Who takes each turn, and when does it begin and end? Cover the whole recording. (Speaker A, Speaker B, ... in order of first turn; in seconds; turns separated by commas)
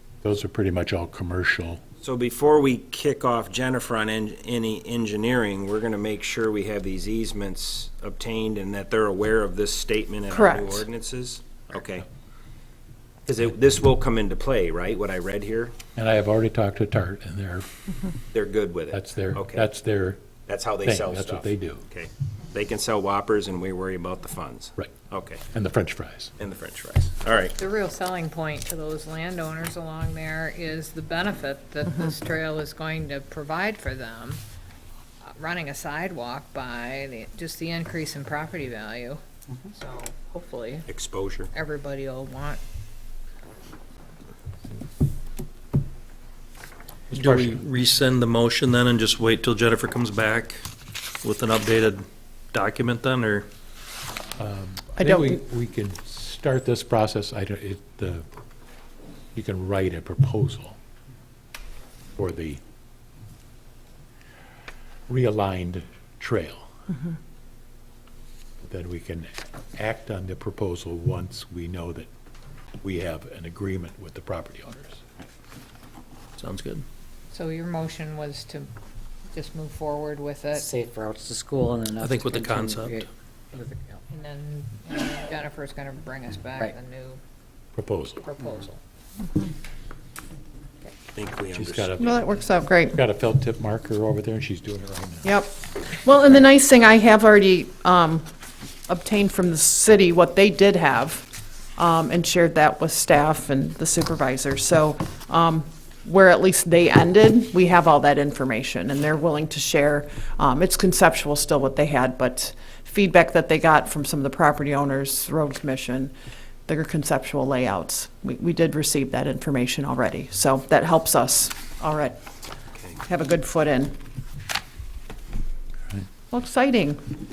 Speaker A: 0.2-1.8, Speaker B: 2.0-12.1, Speaker C: 10.3-10.9, Speaker B: 13.3-15.8, Speaker A: 16.0-17.7, Speaker B: 18.3-19.7, Speaker A: 18.9-20.2, Speaker B: 20.5-25.4, Speaker A: 20.8-21.8, Speaker A: 25.5-26.3, Speaker B: 26.4-27.6, Speaker D: 27.6-34.4, Speaker D: 35.3-40.9, Speaker B: 40.9-41.5, Speaker D: 41.5-42.6, Speaker E: 47.1-50.6, Speaker A: 47.1-47.6, Speaker E: 51.2-53.5, Speaker A: 54.4-58.3, Speaker C: 55.0-55.4, Speaker A: 59.3-60.8, Speaker A: 62.2-62.6, Speaker A: 65.1-66.7, Speaker A: 68.6-72.1, Speaker A: 72.8-75.0, Speaker E: 76.4-76.8, Speaker D: 77.3-78.7, Speaker D: 79.3-80.7, Speaker F: 80.6-84.0, Speaker E: 82.0-83.1, Speaker D: 84.1-87.2, Speaker A: 87.8-88.2, Speaker D: 88.2-88.8, Speaker B: 91.2-91.9, Speaker A: 91.5-92.2, Speaker C: 92.0-93.0, Speaker A: 92.9-95.3, Speaker C: 95.2-98.3, Speaker C: 98.9-116.1, Speaker C: 116.7-122.2, Speaker C: 123.0-124.0, Speaker C: 126.3-127.0